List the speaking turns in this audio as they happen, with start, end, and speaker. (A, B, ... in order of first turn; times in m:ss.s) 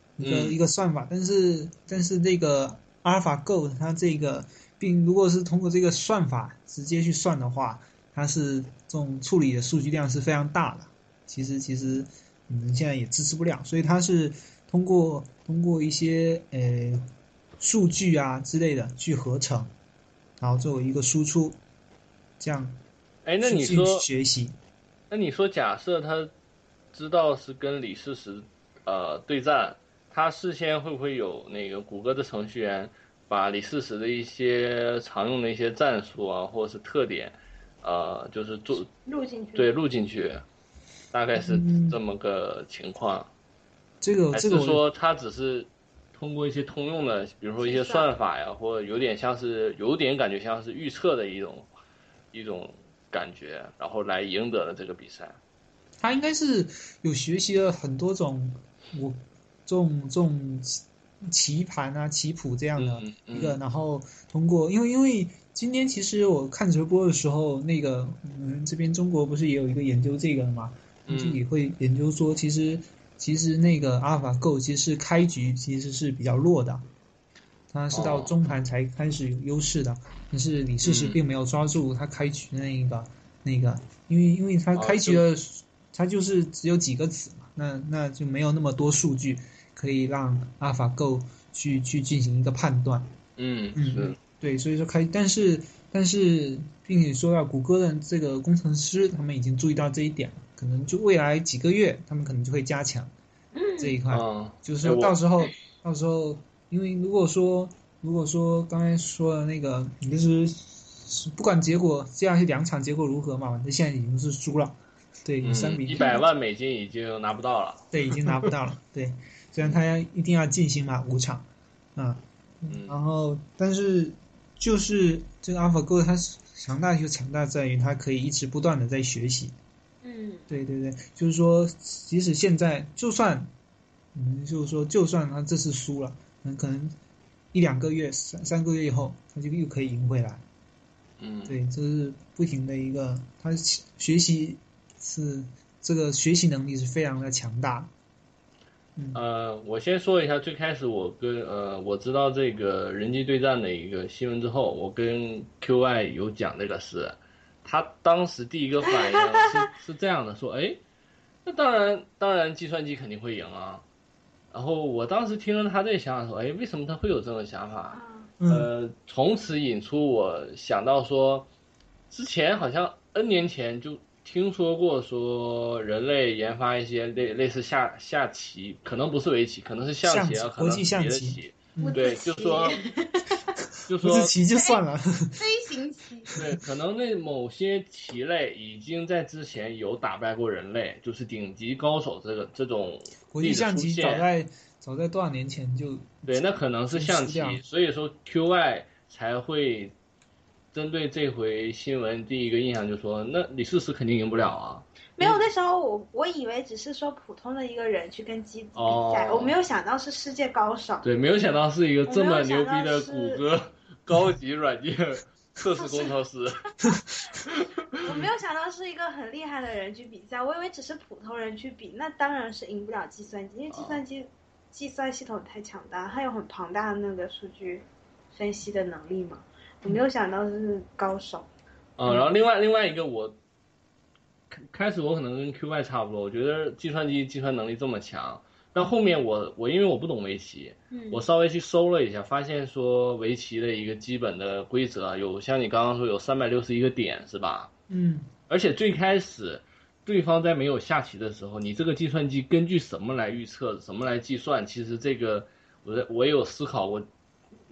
0:00.2-0:17.0 A
0:00.2-0:00.6 B
0:17.6-0:19.7 A
0:20.4-0:21.6 A
0:22.4-0:22.8 A
0:23.2-0:24.1 B
0:23.4-0:24.6 A
0:25.1-0:26.3 B
0:26.9-0:38.9 B
0:39.0-0:39.7 C
0:39.5-0:40.4 B
0:41.1-0:43.3 B
0:41.4-0:42.0 A
0:44.0-0:44.8 A
0:44.3-0:51.7 B
0:47.6-0:48.1 C
0:52.3-0:55.4 B
0:56.0-1:16.9 A
1:02.8-1:03.6 B
1:11.1-1:11.4 B
1:17.7-1:33.1 A
1:17.9-1:18.3 B
1:20.8-1:21.2 B
1:24.7-1:25.2 B
1:33.4-1:34.2 B
1:33.7-1:43.1 A
1:43.5-1:44.0 C
1:43.8-1:56.2 A
1:44.1-1:45.5 B
1:55.4-1:58.5 B
1:56.0-1:56.2 C
1:57.9-2:09.5 A
2:02.7-2:03.0 B
2:10.0-2:10.4 C
2:10.5-2:13.5 A
2:14.1-2:16.9 A
2:17.5-2:20.4 A
2:21.2-2:21.6 B
2:21.4-2:27.9 A
2:29.0-2:29.2 A
2:29.1-2:40.8 B
2:41.4-2:43.8 B
2:44.5-2:51.5 B
2:47.9-2:48.3 C
2:48.4-2:48.7 A
2:52.1-3:02.8 B
3:00.0-3:02.0 A
3:01.8-3:03.3 C
3:03.8-3:04.3 B
3:04.0-3:05.5 A
3:05.4-3:06.3 C
3:06.3-3:06.6 A
3:06.4-3:14.2 B
3:13.3-3:17.6 A
3:16.3-3:19.9 B
3:20.7-3:25.4 B
3:25.2-3:31.1 C
3:28.7-3:29.5 B
3:31.0-3:36.6 B
3:32.1-3:33.4 C
3:35.8-3:36.1 C
3:37.4-3:38.3 B
3:38.0-3:51.5 C
3:43.7-3:44.0 B
3:52.0-3:53.4 B
3:54.5-4:07.7 B
4:00.9-4:01.2 C
4:07.9-4:08.3 A
4:08.5-4:17.1 B